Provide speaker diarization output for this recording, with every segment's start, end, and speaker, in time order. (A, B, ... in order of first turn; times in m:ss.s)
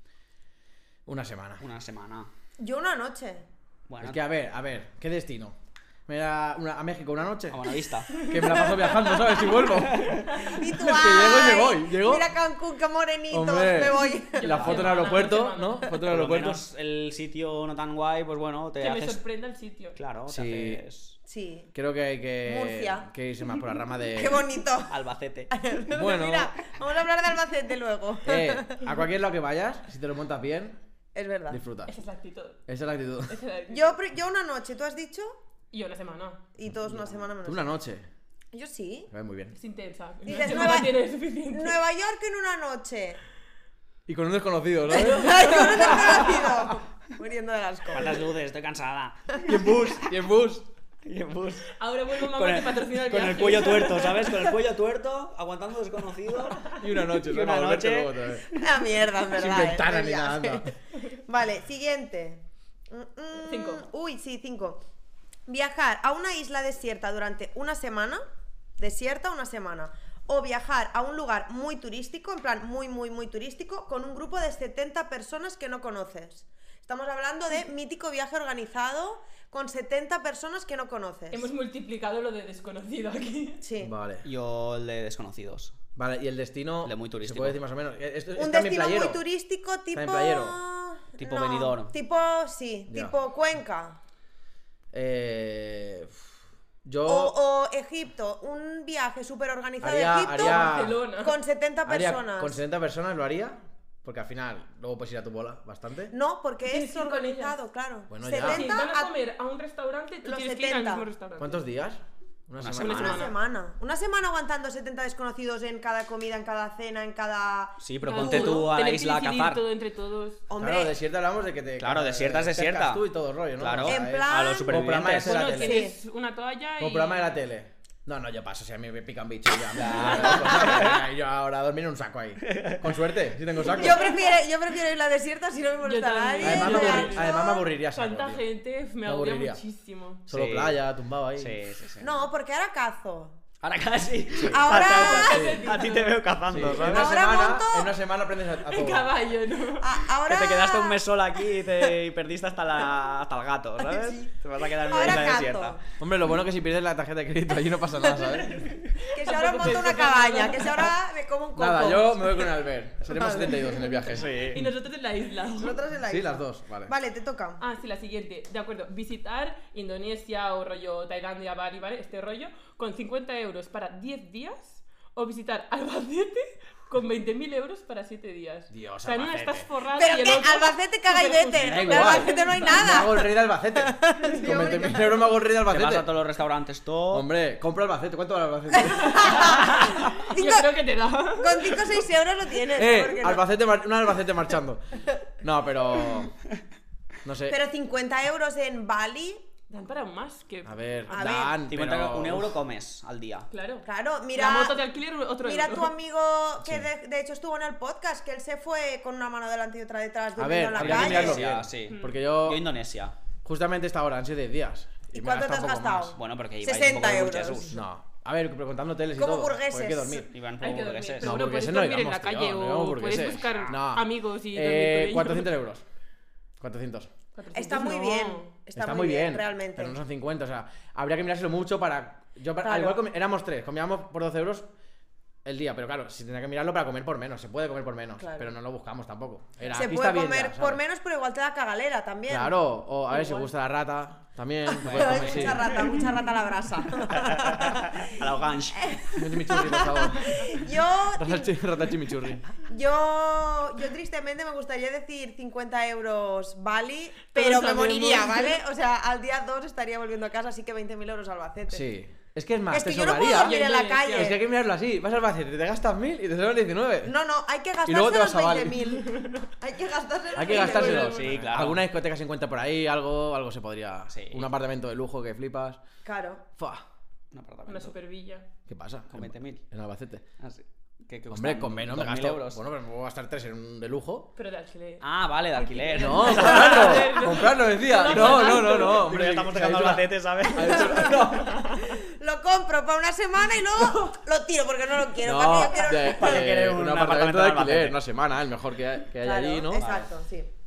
0:01.0-0:01.6 A
0:01.6-0:02.3 B
0:02.6-0:03.4 C
0:03.9-0:04.2 B
0:04.0-0:05.6 A
0:06.1-0:12.3 A
0:07.5-0:08.2 B
0:08.2-0:08.8 D
0:08.4-0:09.1 C
0:09.9-0:10.3 B
0:10.3-0:10.6 D
0:10.4-0:14.8 C
0:13.3-0:16.6 A
0:14.0-0:15.9 D
0:16.0-0:19.2 B
0:18.8-0:20.0 D
0:19.9-0:21.2 B
0:20.3-0:20.8 A
0:21.2-0:21.7 C
0:21.7-0:24.4 A
0:22.4-0:23.1 C
0:24.1-0:24.9 C
0:24.9-0:25.5 B
0:25.5-0:28.8 C
0:25.9-0:26.5 A
0:28.2-0:30.8 A
0:31.1-0:31.6 C
0:31.5-0:31.9 A
0:31.9-0:32.6 D
0:32.7-0:33.4 A
0:33.3-0:34.0 D
0:33.7-0:35.4 C
0:35.7-0:36.4 D
0:36.6-0:37.7 C
0:37.4-0:38.0 A
0:38.5-0:39.1 C
0:39.1-0:39.6 A
0:39.6-0:41.8 D
0:40.2-0:43.2 C
0:44.1-0:46.7 A
0:44.9-0:48.2 C
0:44.9-0:46.4 D
0:47.9-0:49.5 B
0:49.4-0:50.7 A
0:51.0-0:51.7 B
0:51.7-0:54.4 D
0:52.3-0:58.3 B
0:56.7-0:58.5 A
0:58.5-1:04.8 C
0:59.3-1:00.7 A
1:03.4-1:03.9 D
1:05.5-1:08.2 C
1:08.8-1:21.5 C
1:21.3-1:23.6 D
1:23.6-1:23.9 C
1:23.8-1:24.2 A
1:24.2-1:25.7 B
1:26.0-1:29.2 A
1:26.8-1:27.6 B
1:28.4-1:34.0 C
1:29.9-1:30.6 A
1:31.2-1:31.9 B
1:32.9-1:33.1 A
1:34.9-1:36.2 A
1:36.8-1:37.3 A
1:37.0-1:42.6 C
1:39.8-1:41.0 A
1:40.4-1:41.4 D
1:41.8-1:46.1 A
1:46.1-1:49.1 C
1:46.6-1:47.6 D
1:48.1-1:48.7 A
1:48.3-1:51.6 D
1:50.2-1:51.1 C
1:51.4-1:53.1 A
1:52.6-1:53.3 B
1:52.8-1:53.3 D
1:52.8-1:58.7 C
1:57.8-1:59.6 B
1:58.1-2:00.4 D
2:00.5-2:00.9 C
2:00.6-2:05.9 A
2:01.8-2:03.0 B
2:03.6-2:05.5 B
2:03.8-2:04.8 C
2:05.2-2:07.4 D
2:05.5-2:06.0 C
2:06.8-2:14.2 A
2:09.7-2:11.0 B
2:12.4-2:12.8 B
2:13.7-2:17.6 C
2:15.8-2:20.2 D
2:16.4-2:18.4 A
2:19.0-2:19.6 A
2:20.3-2:21.6 A
2:20.3-2:20.8 B
2:21.4-2:22.1 B
2:22.0-2:23.4 C
2:23.6-2:27.2 B
2:24.3-2:24.6 A
2:24.4-2:25.6 C
2:24.8-2:26.2 D
2:25.3-2:25.6 A
2:26.5-2:29.1 A
2:26.8-2:27.9 C
2:28.6-2:30.0 D
2:29.8-2:31.0 C
2:30.2-2:35.8 B
2:33.8-2:35.8 C
2:36.0-2:38.6 A
2:38.6-2:40.9 D
2:39.1-2:44.0 C
2:41.5-2:44.6 A
2:44.1-2:44.6 B
2:44.4-2:45.9 D
2:45.6-2:47.6 C
2:46.1-2:46.9 A
2:47.6-3:03.0 D
2:58.7-2:59.7 A
2:59.9-3:05.4 C
3:01.6-3:06.1 A
3:05.6-3:07.2 B
3:07.1-3:10.0 A
3:08.8-3:10.8 C
3:09.1-3:12.0 D
3:11.4-3:13.4 C
3:12.7-3:14.8 A
3:15.4-3:16.3 A
3:17.2-3:17.6 A
3:17.5-3:19.4 C
3:19.7-3:21.3 D
3:20.6-3:22.6 A
3:21.1-3:21.6 C
3:21.6-3:23.5 B
3:23.5-3:25.9 D
3:23.8-3:24.8 C
3:25.4-3:31.4 C
3:26.6-3:26.9 A
3:30.4-3:32.6 A
3:30.7-3:33.1 B
3:31.9-3:32.2 D
3:33.4-3:36.2 A
3:35.1-3:37.7 C
3:36.2-3:37.8 B
3:37.7-3:40.3 A
3:39.2-3:40.3 C
3:40.3-3:41.4 B
3:40.6-3:45.5 D
3:41.2-3:45.8 A
3:46.6-3:47.1 A
3:47.4-3:48.5 D
3:47.5-3:50.0 C
3:48.7-3:54.7 A
3:52.6-3:53.0 C
3:55.4-4:00.8 A
3:58.2-3:58.5 C
3:59.7-4:02.5 C
4:02.3-4:05.9 A
4:03.1-4:03.5 D
4:04.8-4:05.9 B
4:04.8-4:08.2 C
4:07.1-4:09.1 B
4:08.8-4:11.5 C
4:09.1-4:12.4 A
4:12.6-4:21.8 C
4:17.3-4:18.6 D
4:21.7-4:27.1 A
4:22.7-4:24.4 C
4:23.2-4:24.4 D
4:27.0-4:31.2 C
4:27.8-4:28.8 A
4:30.4-4:35.8 A
4:30.4-4:31.5 D
4:31.0-4:31.8 B
4:34.1-4:34.5 B
4:36.0-4:36.4 C
4:36.6-4:36.8 A
4:37.3-4:37.9 B
4:37.7-4:38.4 D
4:38.7-4:40.2 A
4:39.1-4:39.6 B
4:40.4-4:42.6 B
4:41.3-4:44.3 A
4:44.4-4:49.1 D
4:45.0-4:47.4 B
4:46.0-4:51.8 A
4:48.0-4:51.2 B
4:50.8-4:56.5 C
4:55.2-4:59.8 A
4:56.0-4:58.0 B
4:59.2-5:00.5 C
4:59.8-5:00.1 B